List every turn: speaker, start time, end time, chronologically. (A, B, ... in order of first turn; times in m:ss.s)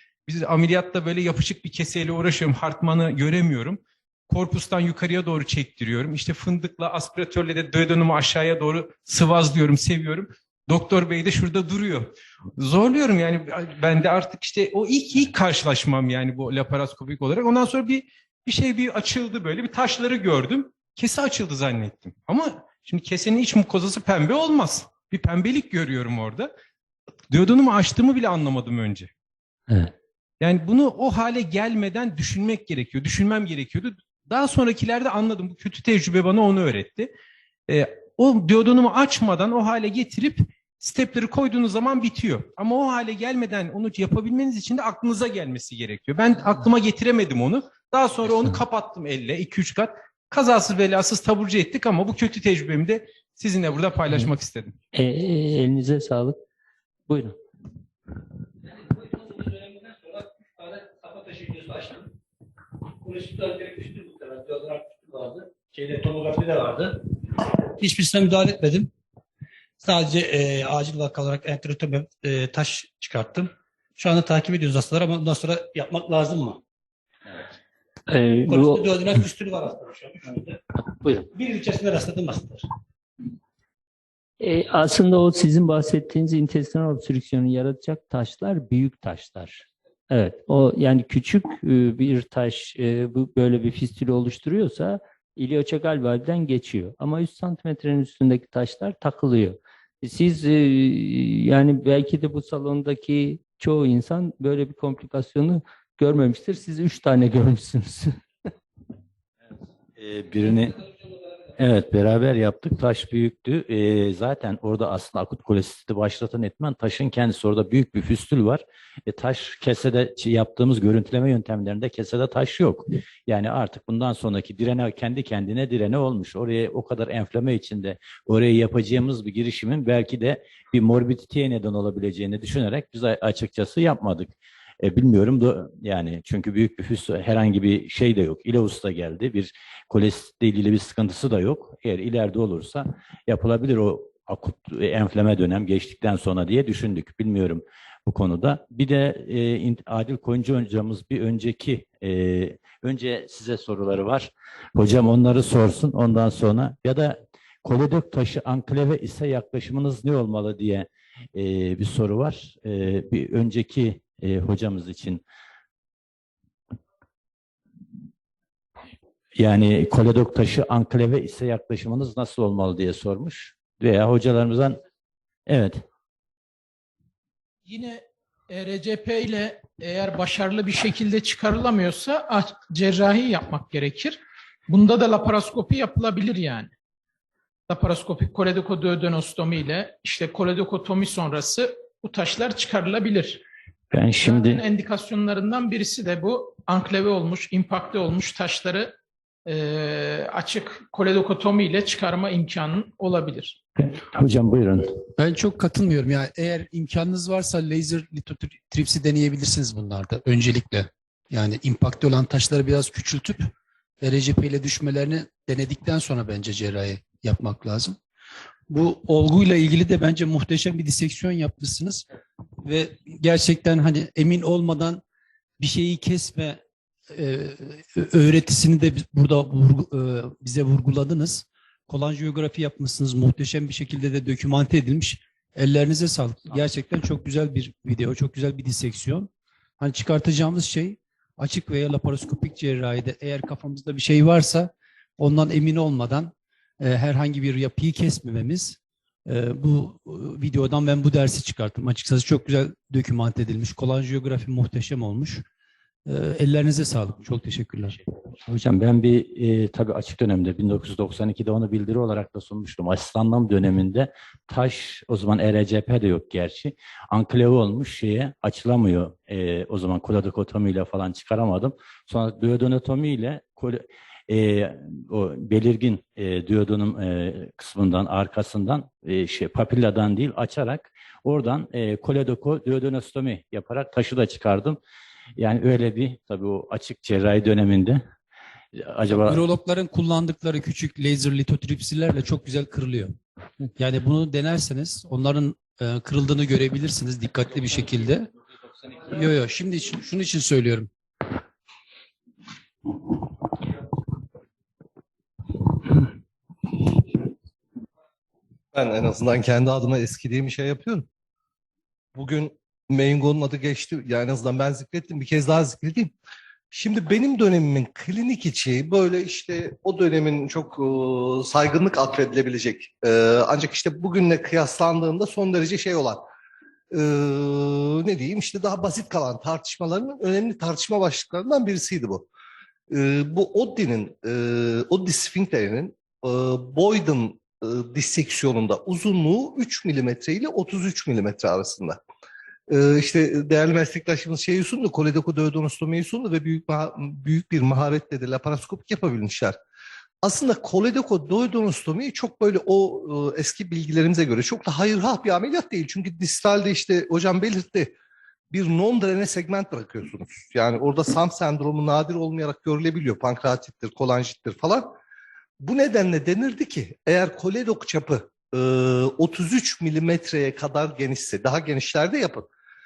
0:00.3-0:26.5 A
0:27.3-0:29.1 A
0:30.4-0:37.1 A
0:37.7-0:54.8 A
0:54.9-0:56.4 B
0:57.1-0:57.4 B
0:59.1-1:02.1 C
1:03.0-1:07.0 C
1:07.8-1:08.9 C
1:09.8-1:16.6 C
1:18.1-1:18.9 B
1:18.5-1:20.6 C
1:20.9-1:21.3 B
1:21.3-1:22.6 C
1:24.4-1:48.2 B
1:50.0-1:50.8 D
1:51.6-2:45.2 D
2:49.4-2:54.8 D
2:55.5-2:55.8 D
2:57.7-3:06.7 E
3:07.7-3:13.4 E
3:13.9-3:14.6 D
3:14.2-3:19.0 E
3:19.5-3:23.6 E
3:23.8-3:24.9 D
3:25.2-3:33.5 F
3:34.0-3:38.0 F
3:38.7-3:42.0 F
3:42.6-3:45.0 F
3:45.6-3:46.6 F
3:47.1-4:15.4 F
4:16.1-4:18.0 F
4:18.5-4:44.8 D
4:45.4-4:48.0 D
4:48.7-4:49.4 D
4:49.1-4:53.2 F
4:53.8-4:58.3 F
4:59.0-5:00.9 F
5:08.7-5:11.1 G
5:12.2-5:16.1 G
5:16.7-5:26.2 G
5:26.9-5:32.3 G
5:32.9-5:42.0 G
5:42.7-5:49.6 G
5:50.2-5:57.9 G
5:58.5-6:04.9 G
6:05.6-6:12.5 G